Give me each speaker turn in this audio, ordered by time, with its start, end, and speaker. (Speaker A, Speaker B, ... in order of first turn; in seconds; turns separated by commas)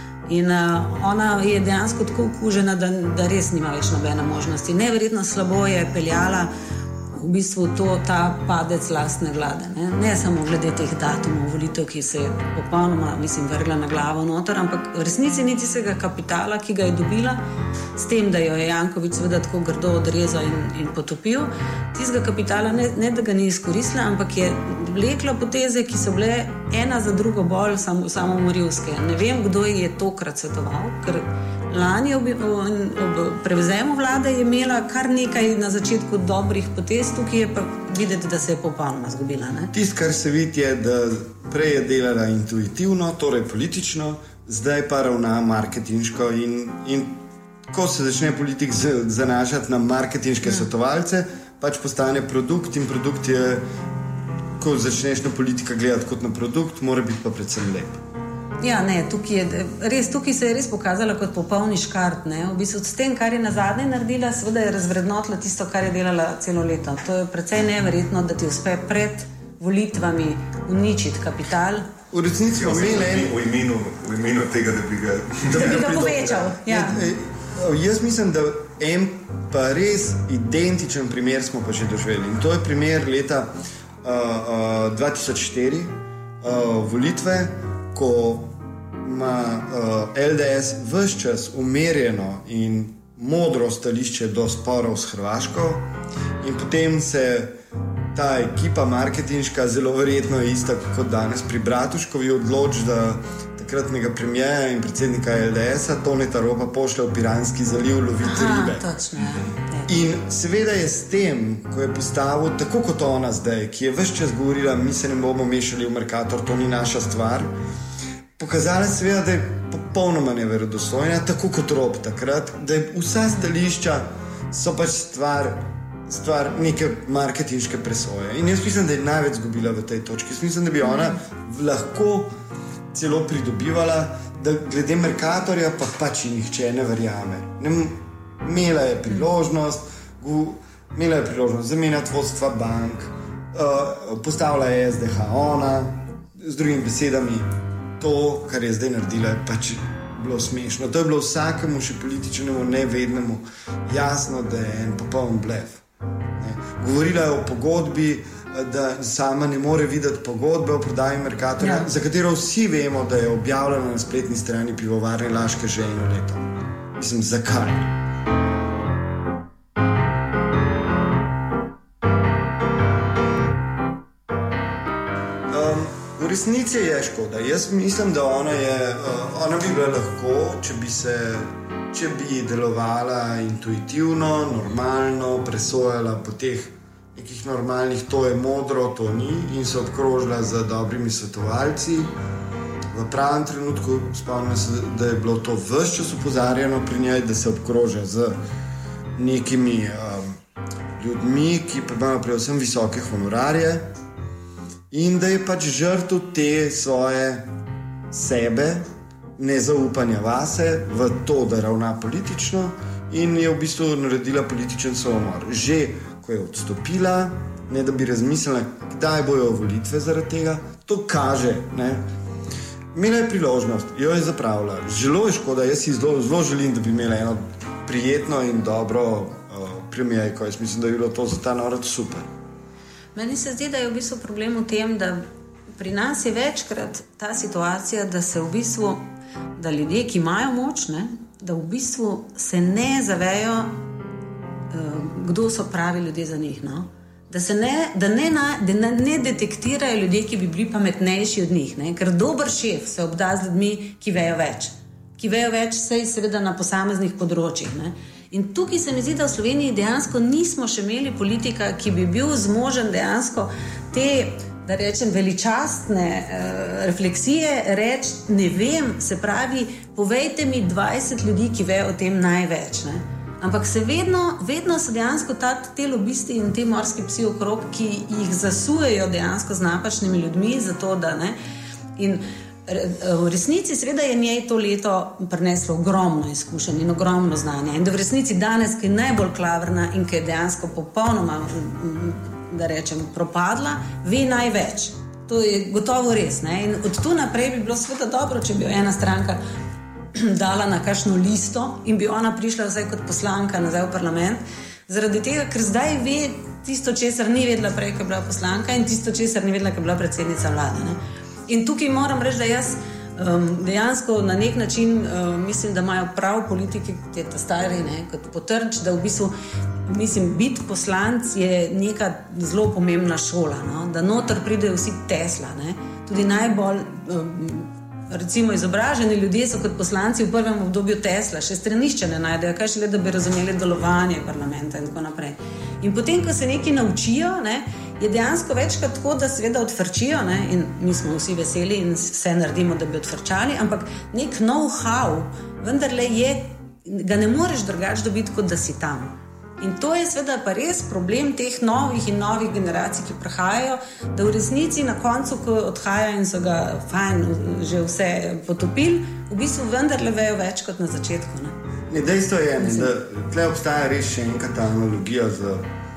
Speaker A: 0.3-6.5, Speaker A: 7.2-17.4, Speaker A: 17.9-39.7, Speaker B: 39.7-53.6, Speaker B: 54.6-58.0, Speaker A: 58.6-71.9, Speaker B: 72.1-73.4, Speaker C: 72.5-75.8, Speaker B: 75.4-95.9, Speaker A: 75.5-77.0, Speaker B: 96.4-97.5, Speaker B: 98.1-108.8, Speaker A: 108.2-109.9, Speaker B: 109.9-117.5, Speaker B: 118.4-132.3, Speaker B: 132.9-155.8, Speaker B: 156.4-167.9, Speaker A: 161.6-161.9, Speaker B: 175.5-192.1, Speaker B: 192.9-198.4, Speaker B: 199.2-200.4, Speaker B: 201.0-203.9, Speaker B: 204.9-207.5, Speaker B: 208.1-222.1, Speaker B: 222.9-232.3, Speaker A: 233.1-235.2, Speaker A: 235.8-239.0, Speaker A: 239.6-243.7, Speaker A: 244.7-281.4, Speaker A: 282.0-299.4, Speaker A: 300.1-319.3, Speaker A: 319.9-361.5, Speaker B: 361.9-365.6, Speaker A: 362.6-362.9